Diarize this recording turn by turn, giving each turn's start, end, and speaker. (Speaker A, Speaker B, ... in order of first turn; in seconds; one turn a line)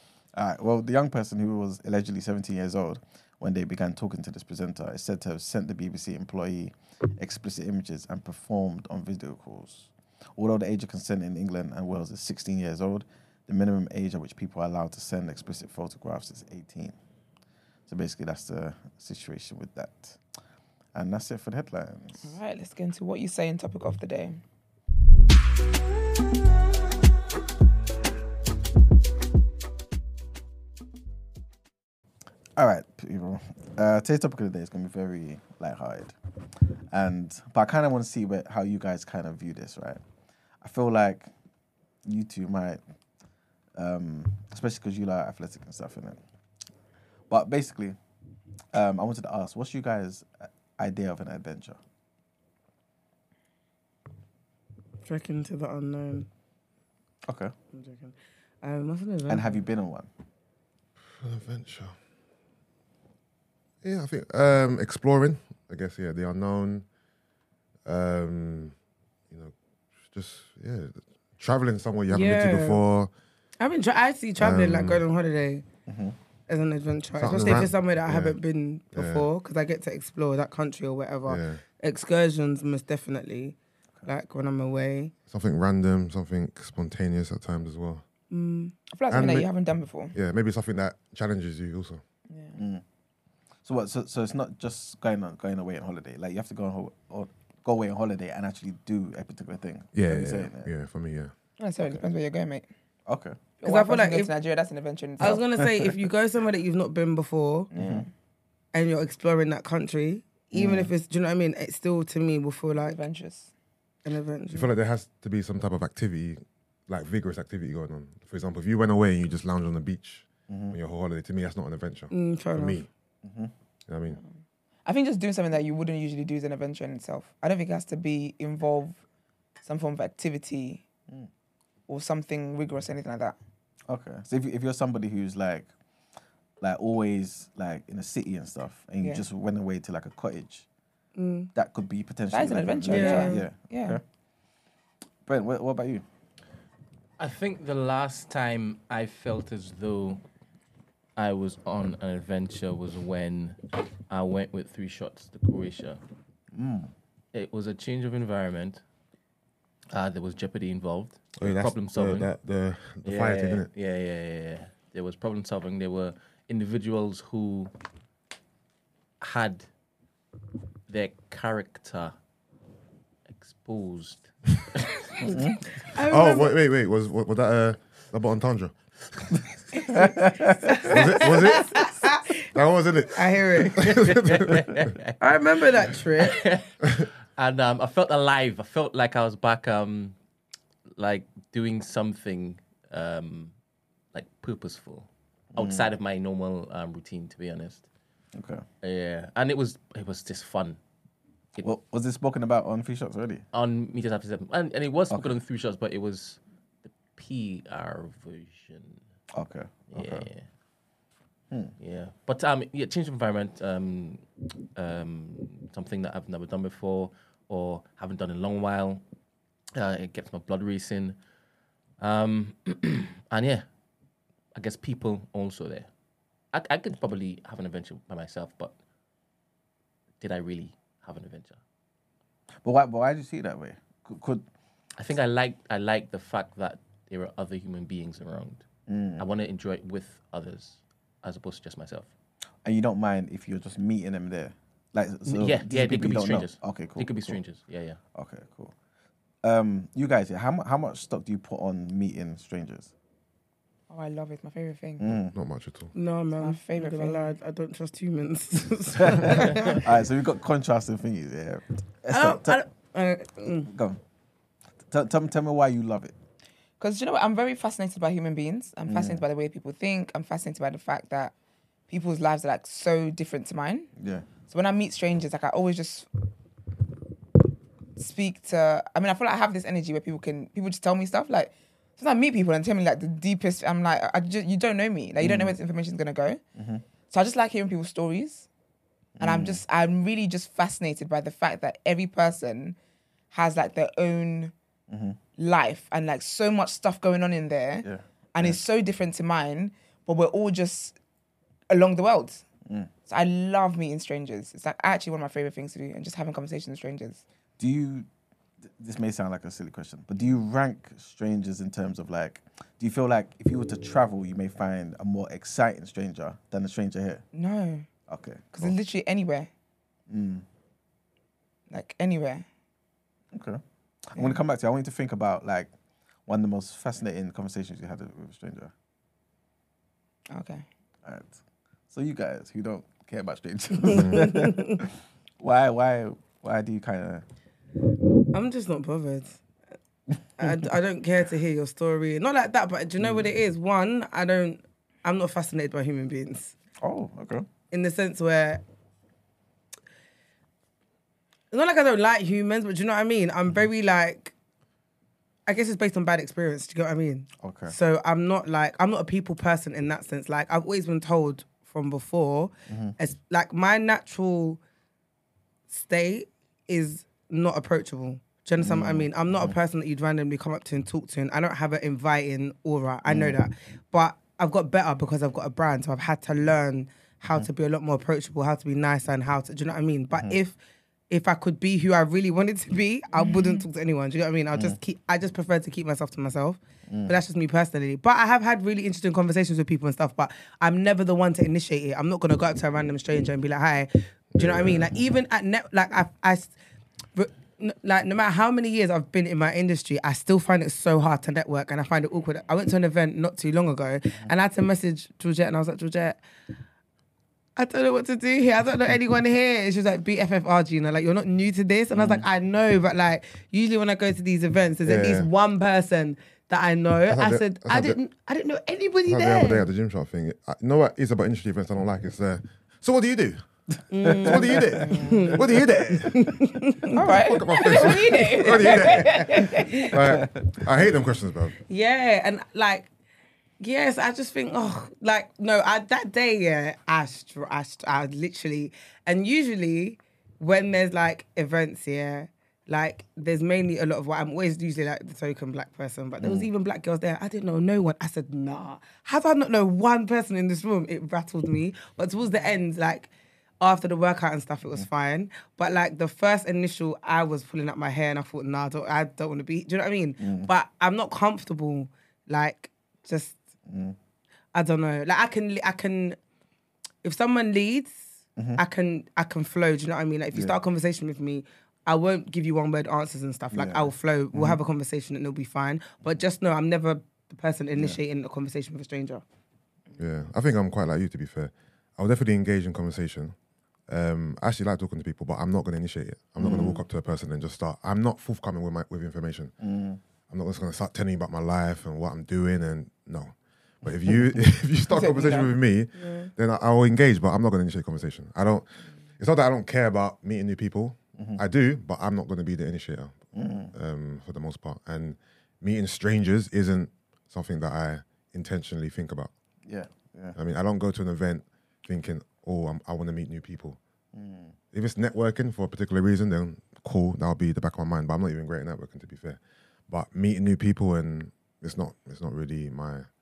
Speaker A: 0.3-16.9
Speaker A: 17.9-20.2
Speaker A: 20.9-22.3
Speaker B: 22.2-24.4
Speaker A: 32.6-36.1
Speaker A: 36.9-40.0
Speaker A: 40.6-41.3
Speaker A: 42.0-42.8
Speaker A: 43.8-46.2
Speaker A: 47.3-48.0
Speaker A: 48.7-51.8
Speaker C: 55.0-56.3
Speaker A: 57.2-57.5
Speaker C: 57.7-59.7
Speaker A: 59.3-60.1
Speaker D: 61.1-61.9
Speaker D: 63.8-66.8
Speaker D: 67.8-68.7
Speaker D: 70.1-73.1
Speaker C: 72.1-72.8
Speaker C: 73.6-75.6
Speaker D: 74.4-75.0
Speaker A: 75.9-76.2
Speaker C: 76.5-85.1
Speaker D: 77.2-78.4
Speaker D: 78.9-79.3
Speaker D: 81.2-81.6
Speaker D: 85.3-88.0
Speaker C: 88.3-88.7
Speaker B: 88.9-90.1
Speaker D: 89.1-89.5
Speaker D: 90.1-92.0
Speaker B: 92.3-92.6
Speaker A: 92.5-92.8
Speaker A: 93.6-100.7
Speaker D: 99.9-102.0
Speaker B: 101.6-102.7
Speaker A: 103.1-103.4
Speaker B: 103.6-105.4
Speaker C: 103.6-104.3
Speaker C: 105.2-107.7
Speaker A: 105.4-106.0
Speaker B: 107.7-108.1
Speaker A: 107.8-108.1
Speaker C: 108.7-113.0
Speaker A: 110.5-110.9
Speaker B: 112.7-113.5
Speaker C: 114.0-114.7
Speaker D: 114.5-122.9
Speaker A: 120.5-120.8
Speaker C: 122.1-122.8
Speaker A: 123.2-123.5
Speaker D: 123.9-124.2
Speaker B: 124.8-129.0
Speaker B: 129.6-130.8
Speaker B: 131.9-133.3
Speaker A: 133.9-135.7
Speaker A: 136.6-140.7
Speaker B: 139.0-139.2
Speaker C: 141.2-141.5
Speaker A: 141.5-144.0
Speaker B: 142.3-144.0
Speaker C: 142.9-143.4
Speaker A: 145.2-146.0
Speaker E: 147.2-150.2
Speaker E: 151.2-156.0
Speaker A: 156.5-156.9
Speaker E: 157.3-158.8
Speaker E: 159.9-162.3
Speaker D: 161.4-163.7
Speaker E: 163.0-167.7
Speaker E: 169.2-169.7
Speaker E: 170.9-172.1
Speaker E: 173.3-175.1
Speaker A: 175.2-175.6
Speaker C: 175.9-176.5
Speaker D: 176.1-178.7
Speaker C: 179.8-182.3
Speaker A: 179.9-180.9
Speaker D: 180.8-184.7
Speaker C: 183.1-183.8
Speaker E: 183.9-185.1
Speaker C: 185.2-186.4
Speaker E: 186.2-190.1
Speaker E: 191.0-193.5
Speaker E: 194.1-197.8
Speaker A: 195.5-195.9
Speaker A: 198.3-198.6
Speaker E: 198.8-200.8
Speaker A: 201.6-203.4
Speaker E: 203.5-209.0
Speaker A: 205.1-205.4
Speaker A: 209.3-210.3
Speaker E: 209.9-210.4
Speaker A: 211.5-211.7
Speaker E: 211.8-214.2
Speaker E: 214.7-219.0
Speaker E: 219.7-221.2
Speaker E: 222.0-223.6
Speaker E: 224.5-225.9
Speaker E: 226.5-228.7
Speaker E: 230.2-231.6
Speaker A: 232.6-234.5
Speaker E: 235.0-238.7
Speaker A: 238.9-239.2
Speaker E: 239.2-242.1
Speaker A: 242.6-247.4
Speaker E: 245.2-248.0
Speaker A: 248.1-248.7
Speaker A: 249.4-252.9
Speaker B: 253.9-255.2
Speaker A: 255.0-255.3
Speaker D: 255.3-255.9
Speaker C: 255.9-259.8
Speaker B: 256.4-257.3
Speaker A: 259.0-262.6
Speaker C: 262.1-263.7
Speaker A: 263.7-264.0
Speaker A: 264.9-266.1
Speaker B: 266.8-271.3
Speaker A: 268.9-269.2
Speaker B: 271.9-273.9
Speaker A: 273.9-274.3
Speaker B: 274.5-276.1
Speaker B: 278.0-286.4
Speaker A: 285.2-285.6
Speaker A: 286.5-286.8
Speaker B: 287.1-288.5
Speaker A: 289.2-289.6
Speaker B: 289.2-292.8
Speaker B: 293.3-294.5
Speaker A: 294.9-295.2
Speaker B: 295.4-300.9
Speaker A: 297.8-298.6
Speaker B: 301.7-302.4
Speaker A: 302.6-302.9
Speaker B: 303.1-307.2
Speaker A: 307.6-308.1
Speaker A: 308.7-317.2
Speaker B: 317.3-317.9
Speaker A: 318.1-318.7
Speaker B: 318.5-319.5
Speaker A: 320.1-320.4
Speaker B: 321.7-322.4
Speaker A: 323.3-325.7
Speaker A: 326.2-328.7
Speaker B: 330.3-330.6
Speaker A: 331.0-331.4
Speaker A: 331.9-337.2
Speaker C: 333.9-334.8
Speaker D: 333.9-334.3
Speaker C: 338.3-339.4
Speaker C: 340.4-346.5
Speaker A: 343.0-343.3
Speaker A: 346.8-347.5
Speaker C: 347.7-348.6
Speaker C: 351.5-354.3
Speaker C: 355.5-364.6
Speaker A: 357.4-357.7
Speaker A: 362.7-362.9
Speaker C: 365.7-380.6
Speaker A: 368.6-369.6
Speaker A: 373.1-373.4
Speaker C: 381.1-396.5
Speaker B: 383.2-383.6
Speaker A: 386.9-387.2
Speaker D: 394.4-394.9
Speaker C: 397.1-406.2
Speaker C: 407.6-419.7
Speaker A: 411.9-412.2
Speaker D: 414.8-415.3
Speaker D: 417.1-418.0
Speaker D: 419.1-423.4
Speaker C: 423.9-425.4
Speaker A: 424.0-425.7
Speaker D: 424.2-426.4
Speaker B: 424.8-425.3
Speaker C: 426.1-427.0
Speaker B: 426.9-429.9
Speaker D: 427.0-431.5
Speaker C: 427.5-427.9
Speaker C: 428.6-429.9
Speaker A: 430.1-430.7
Speaker C: 431.7-432.9
Speaker C: 433.6-453.1
Speaker A: 446.2-446.5
Speaker C: 453.6-463.4
Speaker A: 460.2-460.5
Speaker A: 463.6-463.9
Speaker C: 464.5-466.2
Speaker C: 467.0-468.0
Speaker A: 468.4-468.6
Speaker C: 468.6-479.2
Speaker A: 473.5-474.6
Speaker D: 480.0-483.3
Speaker D: 483.9-489.5
Speaker A: 486.4-486.8
Speaker A: 489.6-490.0
Speaker D: 490.3-498.6
Speaker A: 494.1-494.4
Speaker B: 494.9-495.5
Speaker C: 495.9-496.3
Speaker D: 499.2-509.3
Speaker A: 503.3-503.7
Speaker A: 509.6-510.4
Speaker D: 510.3-513.8
Speaker A: 514.1-514.5
Speaker D: 514.7-523.1